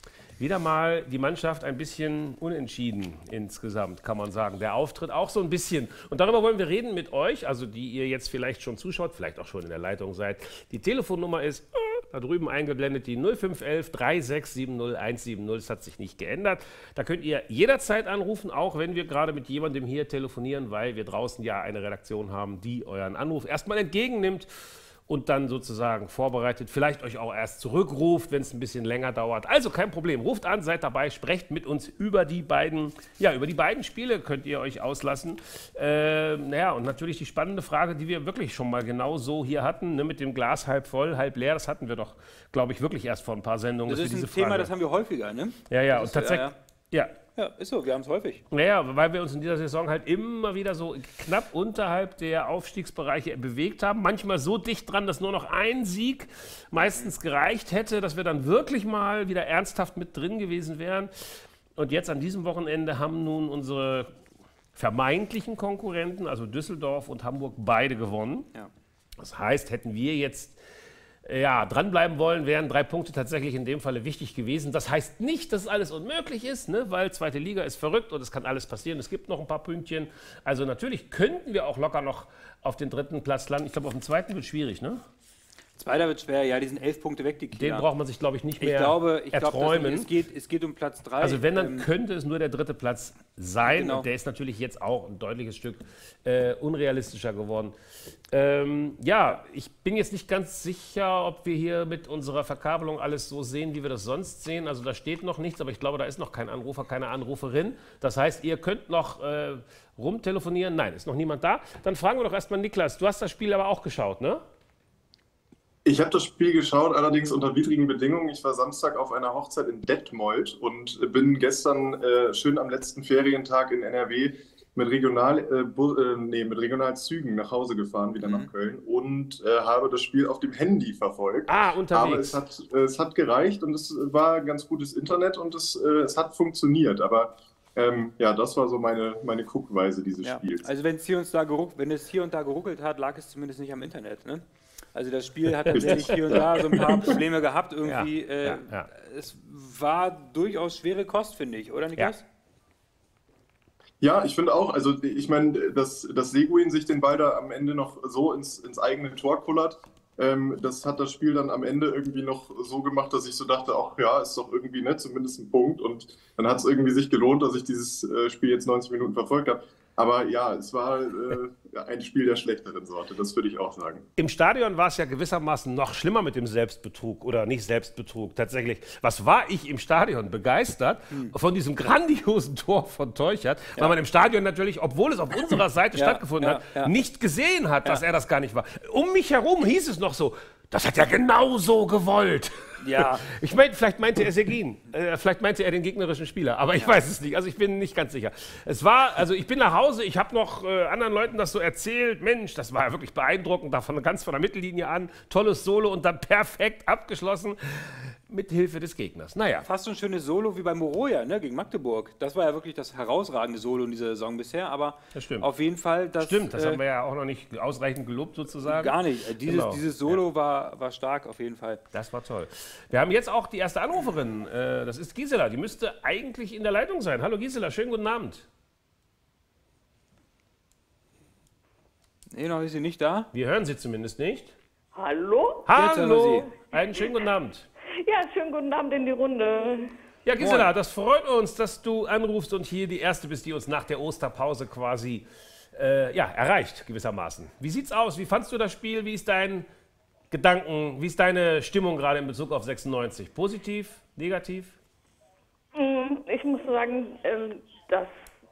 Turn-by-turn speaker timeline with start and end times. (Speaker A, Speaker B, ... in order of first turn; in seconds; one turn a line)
Speaker A: 0.4-24.5
Speaker A: 25.1-44.7
Speaker B: 43.9-46.5
Speaker A: 45.7-47.1
Speaker B: 47.4-48.4
Speaker A: 48.5-64.1
Speaker A: 64.7-68.5
Speaker A: 69.2-70.6
Speaker A: 71.2-85.0
Speaker B: 85.8-87.9
Speaker A: 87.5-90.1
Speaker B: 88.6-91.9
Speaker A: 91.2-97.7
Speaker B: 93.6-94.1
Speaker A: 98.3-114.4
Speaker C: 115.8-140.7
Speaker B: 128.2-128.5
Speaker A: 131.5-132.4
Speaker B: 140.2-152.2
Speaker C: 145.7-147.2
Speaker A: 145.8-146.1
Speaker A: 147.8-148.9
Speaker C: 154.0-174.1
Speaker A: 174.2-209.7
Speaker B: 185.9-186.9
Speaker B: 192.8-193.2
Speaker B: 209.6-216.8
Speaker A: 215.1-215.5
Speaker A: 216.2-220.2
Speaker B: 218.6-221.8
Speaker A: 221.9-228.4
Speaker B: 232.3-233.3
Speaker A: 233.3-234.5
Speaker D: 234.9-235.7
Speaker A: 235.7-237.7
Speaker B: 235.7-236.4
Speaker D: 236.8-237.1
Speaker D: 238.0-239.9
Speaker A: 240.2-249.7
Speaker B: 240.4-240.7
Speaker A: 250.3-254.8
Speaker D: 255.7-258.2